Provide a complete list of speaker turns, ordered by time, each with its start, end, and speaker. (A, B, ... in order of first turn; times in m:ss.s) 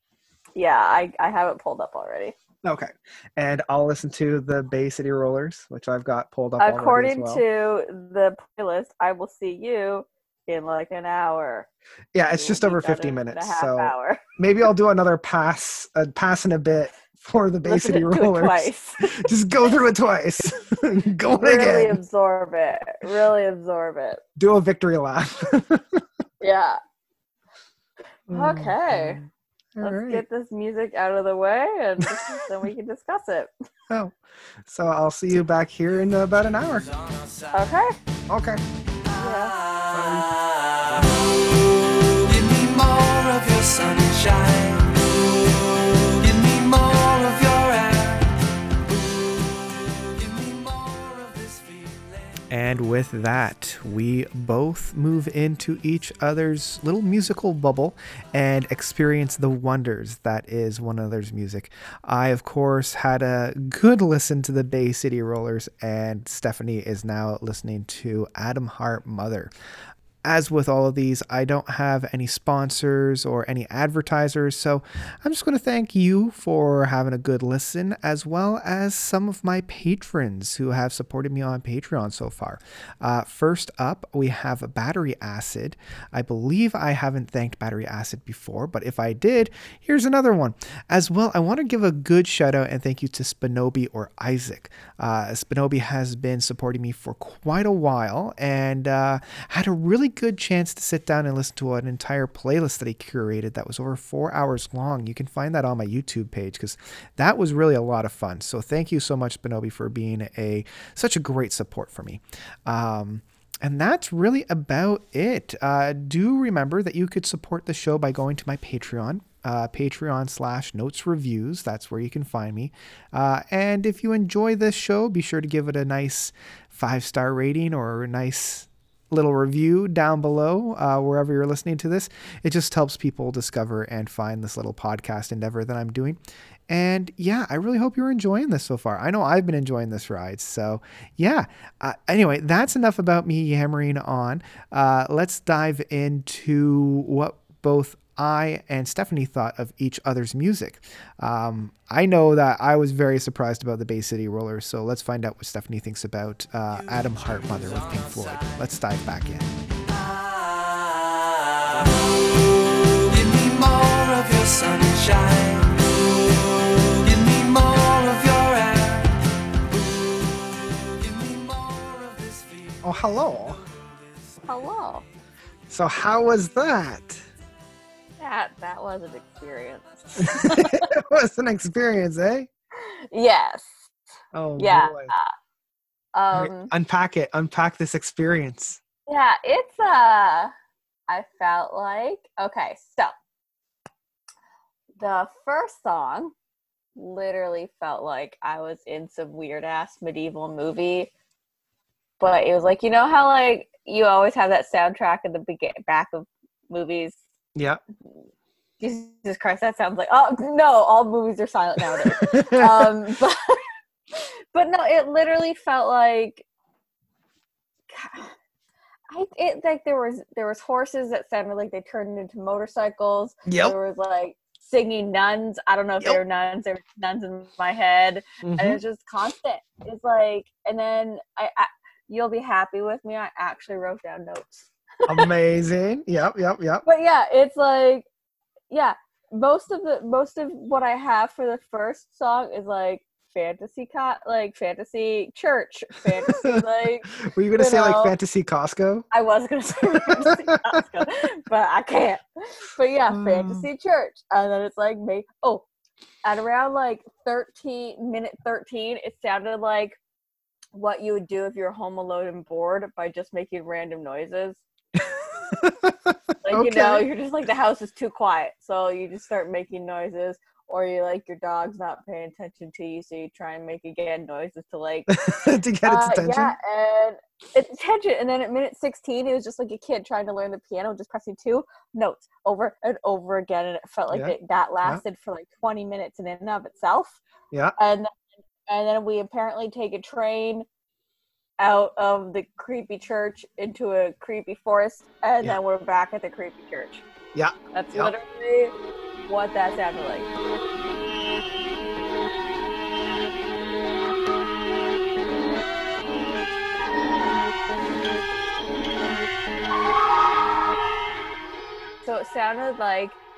0:00.6-0:02.4 A
0:02.6-0:07.4 B
0:06.6-0:11.7 A
0:12.1-0:22.0 B
0:12.3-0:14.2 A
0:17.6-0:19.2 A
0:21.4-0:24.2 A
0:24.4-0:26.0 B
0:26.4-0:26.8 A
0:28.3-0:30.2 B
0:28.3-0:29.2 A
0:29.8-0:33.5 A
0:33.9-0:36.9 B
0:37.1-0:37.5 C
0:37.5-0:38.0 A
0:38.3-0:38.6 B
0:39.1-0:39.6 A
0:39.9-0:40.3 B
0:39.9-0:48.3 C
0:48.9-0:52.3 C
0:52.5-1:09.5 B
1:10.2-2:39.5 B
2:36.7-2:38.7 C
2:41.6-2:49.2 C
2:49.7-2:52.9 C
2:52.8-2:53.6 B
2:54.5-2:55.0 A
2:55.7-2:57.2 B
2:58.2-3:00.9 A
3:00.2-3:02.5 B
3:02.8-3:03.7 A
3:04.3-3:05.1 B
3:04.6-3:05.3 A
3:06.2-3:06.7 A
3:06.3-3:08.8 B
3:09.1-3:10.5 A
3:11.1-3:13.1 A
3:15.0-3:16.3 A
3:17.0-3:21.1 A
3:22.2-3:27.2 A
3:27.6-3:27.8 B
3:28.8-3:33.6 A
3:31.9-3:32.9 B
3:34.1-3:36.4 A
3:37.9-3:38.3 A
3:39.1-3:55.3 A
3:43.5-3:43.8 B
3:48.4-3:48.8 B
3:55.1-3:56.8 B
3:56.8-3:58.1 A
3:58.7-4:08.2 A
4:06.2-4:09.1 B
4:09.1-4:15.6 A
4:10.1-4:10.7 B
4:13.1-4:13.7 B
4:16.2-4:20.0 A
4:20.7-4:24.6 A
4:25.6-4:27.1 B
4:26.4-4:35.2 A
4:35.1-4:36.5 B
4:35.8-4:47.2 A
4:44.1-4:45.0 B
4:47.8-4:48.2 A
4:48.7-4:50.7 A
4:51.6-4:57.0 A
4:57.3-4:58.1 B
4:57.7-4:58.7 A
4:59.3-5:00.3 A
5:12.0-5:13.2 A